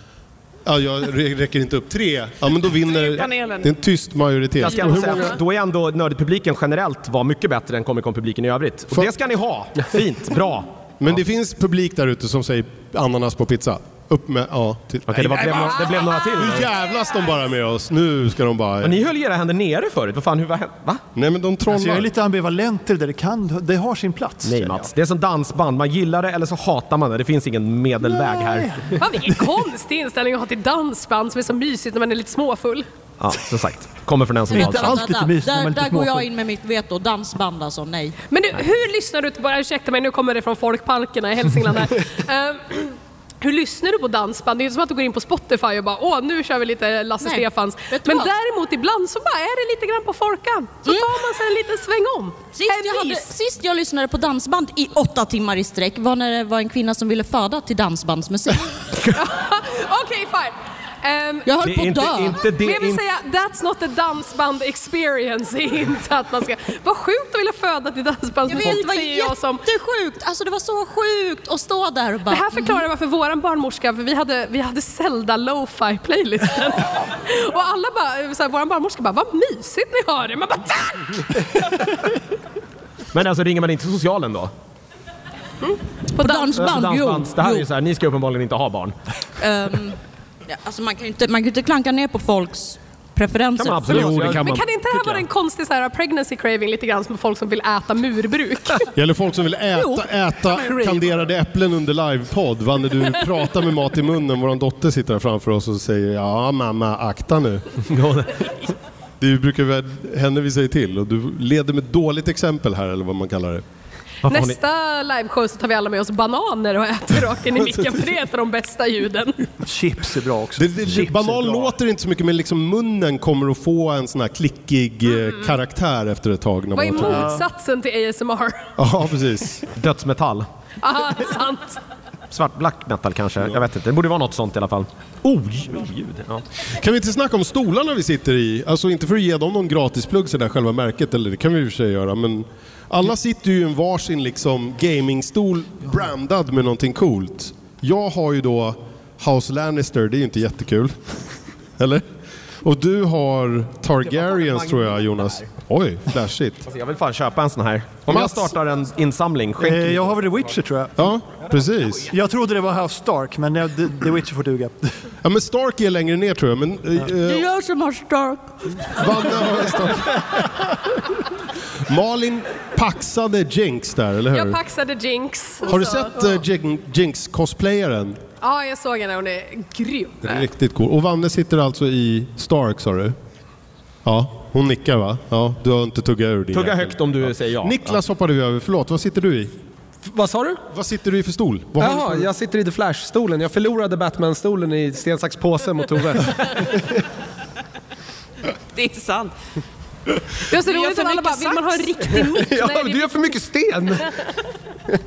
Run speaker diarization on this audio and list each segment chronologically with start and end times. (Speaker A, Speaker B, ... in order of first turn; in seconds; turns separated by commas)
Speaker A: 0.7-5.4, Speaker B: 2.7-3.7, Speaker C: 4.6-10.7, Speaker B: 4.6-5.2, Speaker A: 11.0-19.0, Speaker C: 15.1-16.7, Speaker C: 18.8-21.0, Speaker A: 21.1-22.1, Speaker D: 21.7-24.9, Speaker C: 24.4-28.7, Speaker D: 28.1-28.9, Speaker E: 29.0-32.9, Speaker C: 33.2-35.0, Speaker F: 34.5-38.1, Speaker D: 34.5-36.3, Speaker E: 38.3-53.3, Speaker F: 47.2-48.3, Speaker F: 52.5-58.7, Speaker E: 59.1-61.5, Speaker F: 61.5-62.4, Speaker C: 61.6-63.0, Speaker E: 62.6-69.6, Speaker F: 68.5-72.8, Speaker E: 72.3-81.3, Speaker C: 83.1-84.5, Speaker F: 86.1-87.7, Speaker E: 86.2-86.5, Speaker C: 86.5-88.9, Speaker F: 89.4-90.0, Speaker F: 90.5-94.3, Speaker C: 93.6-94.6, Speaker A: 93.9-94.6, Speaker E: 94.4-98.9, Speaker A: 98.9-107.9, Speaker F: 99.8-100.0, Speaker C: 107.9-108.3, Speaker A: 109.2-113.6, Speaker C: 114.2-114.6, Speaker E: 114.2-119.4, Speaker D: 119.6-121.7, Speaker A: 120.6-127.3, Speaker E: 126.7-128.6, Speaker D: 127.0-127.4, Speaker A: 128.8-129.6, Speaker C: 129.8-130.4, Speaker E: 130.8-131.8, Speaker C: 132.3-136.4, Speaker A: 136.8-151.0, Speaker A: 151.8-152.0, Speaker A: 152.6-156.7, Speaker C: 154.1-155.5, Speaker C: 156.7-160.2, Speaker A: 158.1-158.5, Speaker D: 159.6-160.9, Speaker A: 161.0-162.1, Speaker D: 162.1-164.9, Speaker A: 165.2-167.5, Speaker F: 167.2-168.8, Speaker A: 168.9-170.5, Speaker A: 171.9-174.6, Speaker E: 174.3-176.3, Speaker A: 175.6-178.2, Speaker E: 178.4-180.4, Speaker A: 180.2-183.2, Speaker A: 184.0-189.5, Speaker C: 186.5-188.0, Speaker G: 190.0-190.6, Speaker A: 190.7-192.3, Speaker G: 191.8-196.8, Speaker B: 198.7-199.3, Speaker E: 200.5-203.4, Speaker B: 200.5-202.0, Speaker G: 202.4-204.1